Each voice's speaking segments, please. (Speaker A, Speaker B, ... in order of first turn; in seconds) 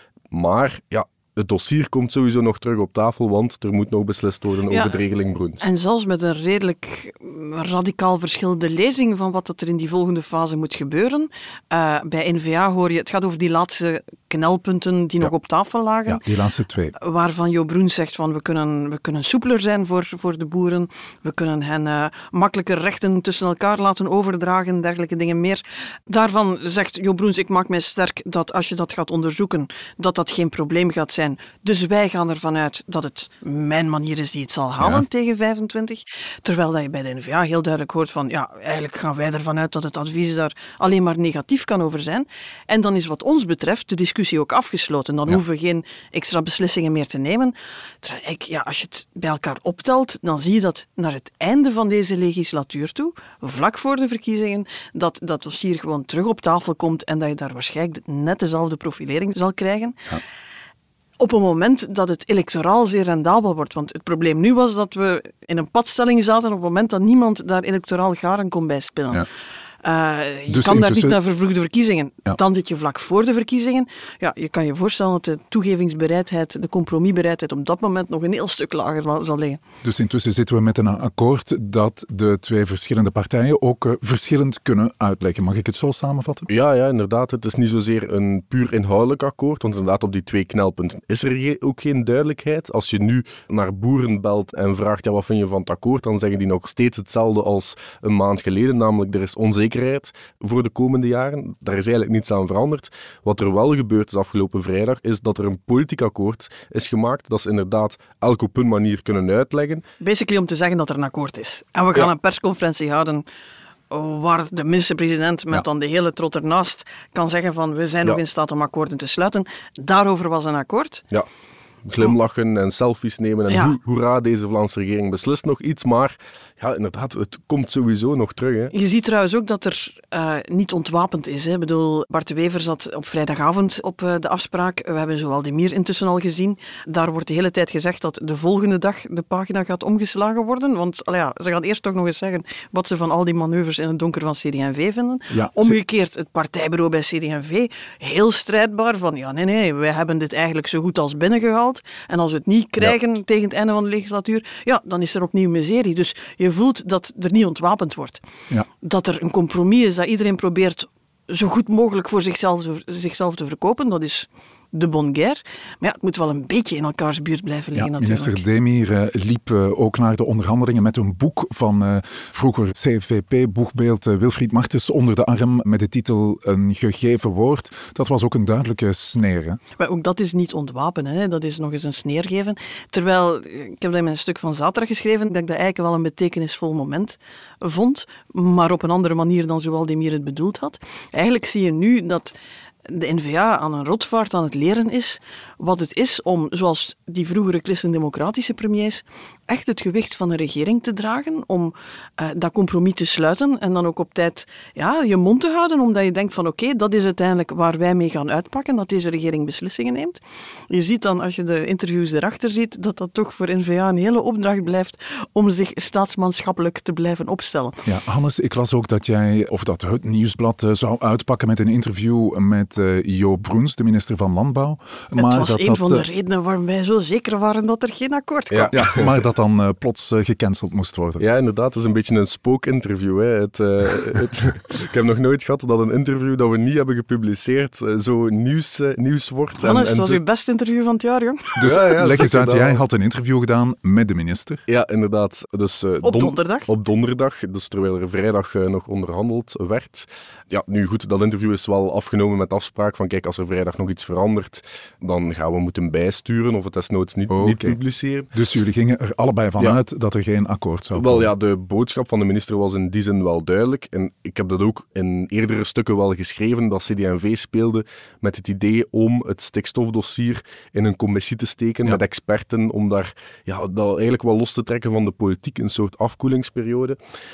Speaker A: 0.3-5.7, 86.5-109.8, 121.8-128.7, 228.5-229.1, 231.2-240.2, 241.6-242.8, 244.7-258.3, 260.9-277.0
Speaker B: 5.6-16.2, 16.9-60.0, 61.2-69.2, 69.8-79.6, 110.0-113.2, 113.9-121.0, 123.5-123.8, 128.7-158.2, 158.8-168.4, 179.8-192.3, 192.8-217.8, 225.2-228.7, 239.6-241.6, 246.0-246.7
Speaker C: 16.1-16.9, 34.8-35.0, 70.5-71.2, 79.8-86.5, 145.3-145.8, 167.7-179.6, 217.8-226.1, 228.7-231.2, 241.6-244.6, 257.3-257.8, 258.3-261.3